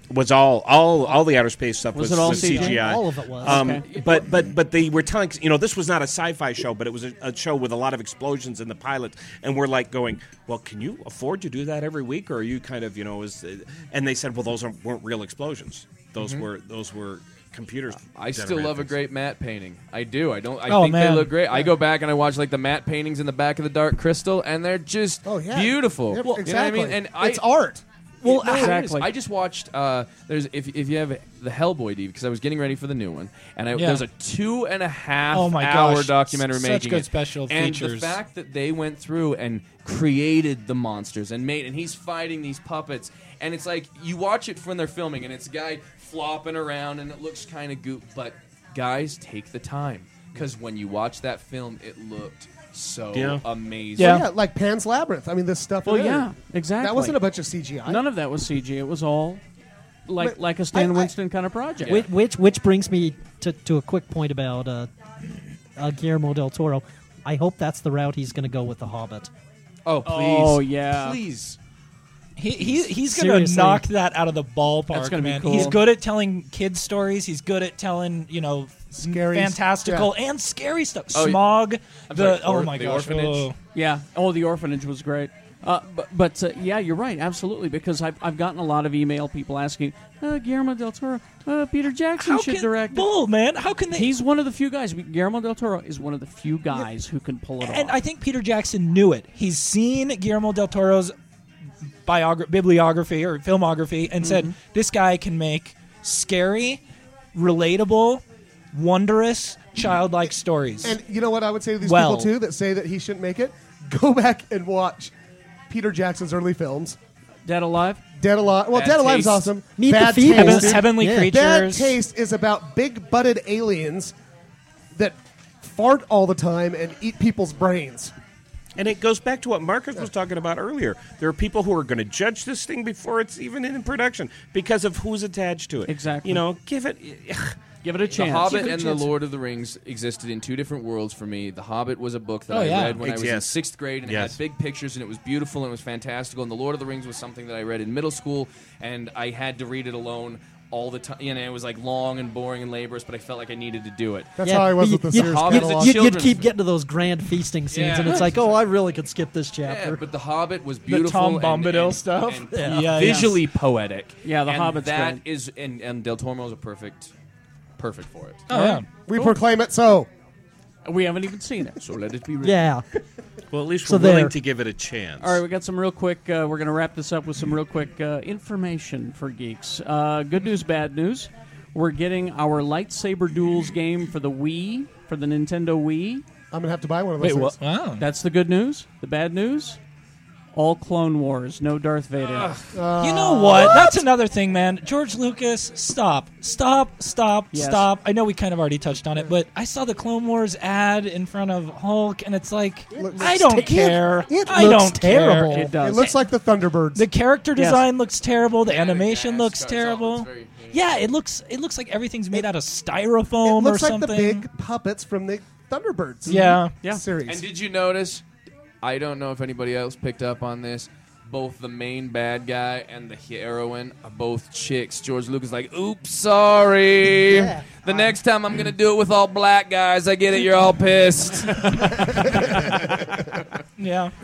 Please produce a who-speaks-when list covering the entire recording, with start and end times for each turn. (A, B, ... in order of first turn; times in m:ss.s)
0:00.1-0:19.0 A
0:01.9-0:02.9 B
0:02.2-0:03.7 C
0:03.4-0:04.0 B
0:03.8-0:04.3 D
0:16.2-0:16.4 D
0:18.0-0:27.4 D
0:20.7-0:21.3 E
0:25.3-0:28.7 F
0:28.2-0:54.2 D
0:28.3-0:29.1 B
0:33.7-0:34.0 E
0:35.3-0:38.2 E
0:53.1-0:53.4 A
0:54.0-0:54.3 E
0:54.0-0:56.3 F
0:55.8-0:57.2 B
0:56.8-0:58.0 F
0:57.8-0:59.4 B
1:00.1-1:02.0 B
1:00.2-1:01.1 F
1:01.8-1:02.1 D
1:01.8-1:04.9 C
1:05.8-1:09.3 C
1:09.8-1:11.6 D
1:10.0-1:11.2 B
1:12.4-1:23.6 E
1:13.0-1:13.9 C
1:14.9-1:15.8 B
1:19.0-1:20.1 F
1:21.1-1:21.4 D
1:22.0-1:23.5 D
1:23.7-1:33.1 B
1:32.2-1:34.2 E
1:33.9-1:38.0 B
1:37.6-1:41.1 E
1:42.0-1:46.8 E
1:44.2-1:44.6 B
1:47.3-1:48.2 E
1:48.7-1:51.0 E
1:50.8-1:55.1 F
1:51.8-1:52.3 E
1:55.7-1:57.0 F
1:57.5-1:58.0 B
1:58.2-2:04.1 F
1:58.7-1:59.5 D
1:59.8-2:01.4 C
2:00.3-2:02.0 E
2:05.0-2:08.1 F
2:08.8-2:17.6 A
2:15.9-2:16.4 B
2:17.8-2:19.1 B
2:18.1-2:34.3 D
2:22.5-2:23.0 E
2:23.0-2:24.4 A
2:34.4-2:36.1 F
2:34.4-2:40.0 C
2:35.1-2:36.5 D
2:37.7-2:38.5 D
2:37.8-2:38.3 E
2:39.6-2:47.1 D
2:40.9-2:43.4 E
2:42.5-2:43.0 C
2:43.0-2:43.3 B
2:44.2-2:45.2 B
2:47.8-2:48.4 D
2:48.5-2:48.9 E
2:48.5-2:49.4 B
2:49.0-2:50.1 F
2:50.8-2:51.8 B
2:51.8-2:52.7 D
2:52.4-2:52.8 C
2:53.5-2:55.4 A
2:53.8-2:54.4 C
2:55.2-3:06.2 B
3:06.5-3:07.6 F
3:07.2-3:08.1 E
3:08.0-3:09.8 B
3:10.5-3:12.6 B
3:12.7-3:14.0 F
3:13.0-3:25.7 E
3:17.5-3:17.9 B
3:22.9-3:27.1 F
3:23.0-3:23.9 C
3:24.5-3:24.9 C
3:25.5-3:26.2 B
3:27.0-3:34.4 E
3:27.6-3:27.8 B
3:28.6-3:31.1 D
3:33.4-3:37.4 F
3:36.3-3:36.8 E
3:37.2-3:38.2 D
3:38.8-3:53.5 D
3:47.2-3:48.1 C
3:53.8-3:54.1 E